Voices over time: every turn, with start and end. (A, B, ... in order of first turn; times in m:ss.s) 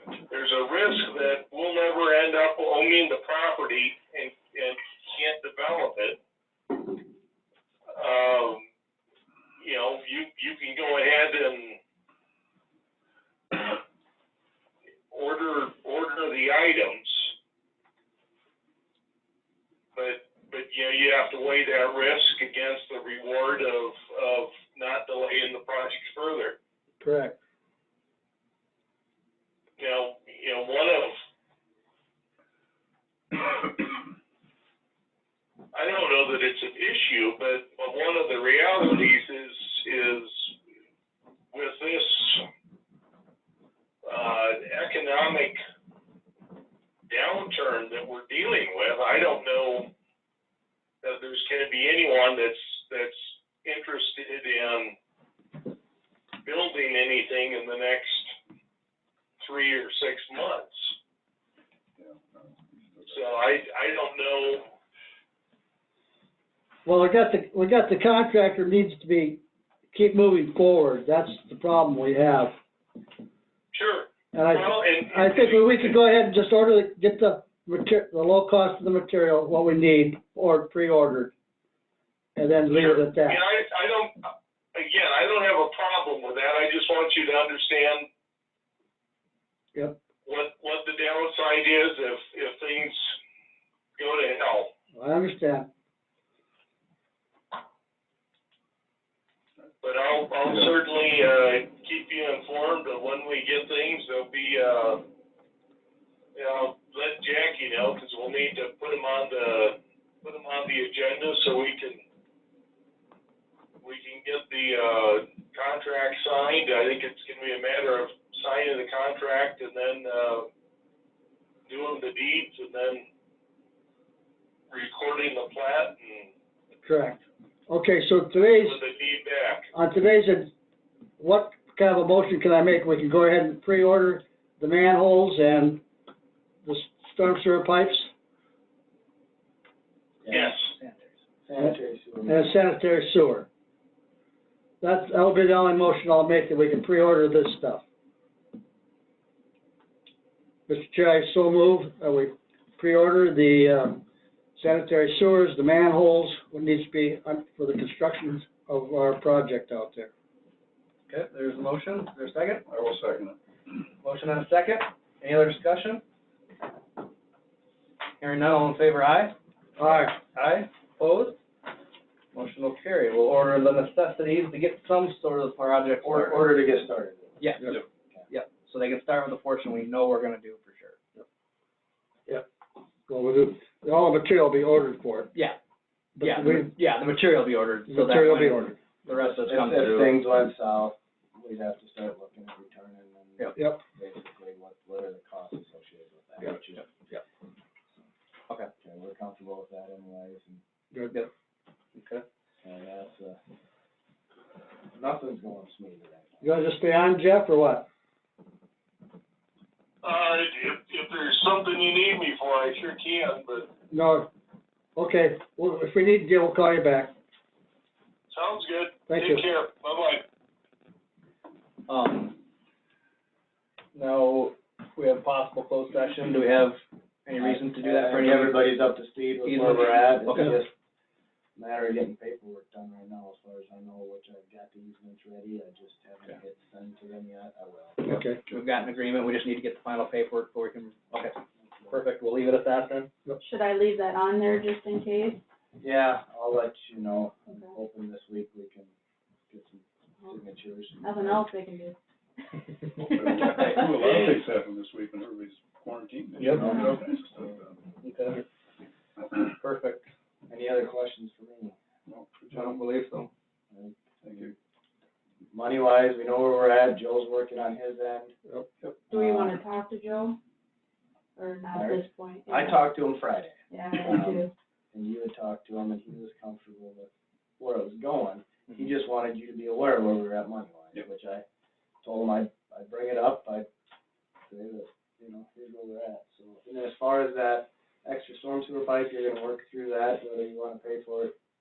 0:00.3-0:06.2 A
0:08.0-0:08.6 A
0:09.6-0:11.8 A
0:15.1-0:17.3 A
0:20.0-0:26.6 A
0:27.0-0:27.4 B
0:29.8-0:31.1 A
0:35.7-0:40.5 A
0:41.5-0:42.4 A
0:44.0-0:45.6 A
0:47.1-0:49.9 A
0:51.0-0:54.9 A
0:56.4-0:58.3 A
0:59.4-1:00.9 A
1:02.0-1:03.4 C
1:03.1-1:04.7 A
1:06.8-1:12.5 B
1:13.7-1:16.0 A
1:14.3-1:21.3 B
1:22.4-1:23.4 B
1:22.7-1:28.0 A
1:30.2-1:33.1 A
1:34.0-1:34.7 A
1:34.9-1:35.7 B
1:39.8-1:45.0 A
1:46.3-1:52.0 A
1:53.8-2:00.5 A
2:01.7-2:03.0 A
2:04.7-2:06.3 A
2:06.8-2:08.8 B
2:08.6-2:09.6 A
2:09.7-2:10.5 B
2:11.2-2:15.8 B
2:16.6-2:18.1 B
2:20.2-2:20.6 D
2:20.3-2:21.1 E
2:20.3-2:20.6 A
2:21.5-2:22.5 D
2:22.3-2:23.5 B
2:24.8-2:27.8 B
2:30.7-2:34.0 B
2:34.6-2:40.1 B
2:41.1-2:42.6 E
2:42.7-2:43.4 C
2:44.0-2:46.0 E
2:48.2-2:49.4 E
2:49.8-2:50.2 B
2:50.2-2:51.4 E
2:52.3-2:56.6 E
2:56.0-2:57.4 D
2:57.4-3:01.0 E
3:03.1-3:05.3 B
3:06.2-3:06.7 B
3:06.2-3:10.1 E
3:07.9-3:08.8 B
3:09.2-3:16.9 D
3:13.6-3:13.8 B
3:16.4-3:17.2 E
3:18.8-3:20.6 D
3:21.9-3:22.2 E
3:22.6-3:23.4 D
3:24.9-3:26.5 D
3:26.4-3:27.9 B
3:30.0-3:33.7 A
3:33.9-3:34.3 B
3:35.0-3:37.1 B
3:38.3-3:40.2 A
3:39.1-3:39.4 B
3:41.9-3:42.4 E
3:43.9-3:48.7 E
3:47.4-3:50.7 D
3:49.4-3:50.6 E
3:51.6-3:58.1 D
3:58.0-3:58.4 B
3:58.5-4:01.4 E
4:01.9-4:03.1 E
4:03.4-4:05.4 F
4:05.8-4:08.9 D
4:09.5-4:11.4 D
4:11.0-4:11.9 F
4:13.0-4:17.8 C
4:16.4-4:16.7 E
4:16.5-4:17.6 D
4:18.0-4:18.4 E
4:19.5-4:20.1 E
4:20.5-4:21.8 D
4:22.1-4:22.8 C
4:22.5-4:23.3 E
4:23.7-4:24.5 D
4:24.2-4:24.5 C
4:25.5-4:28.3 D
4:29.1-4:29.6 D
4:29.1-4:30.4 F
4:31.4-4:32.9 F
4:31.7-4:41.4 D
4:33.7-4:34.5 F
4:42.0-4:43.7 D
4:44.5-4:51.3 D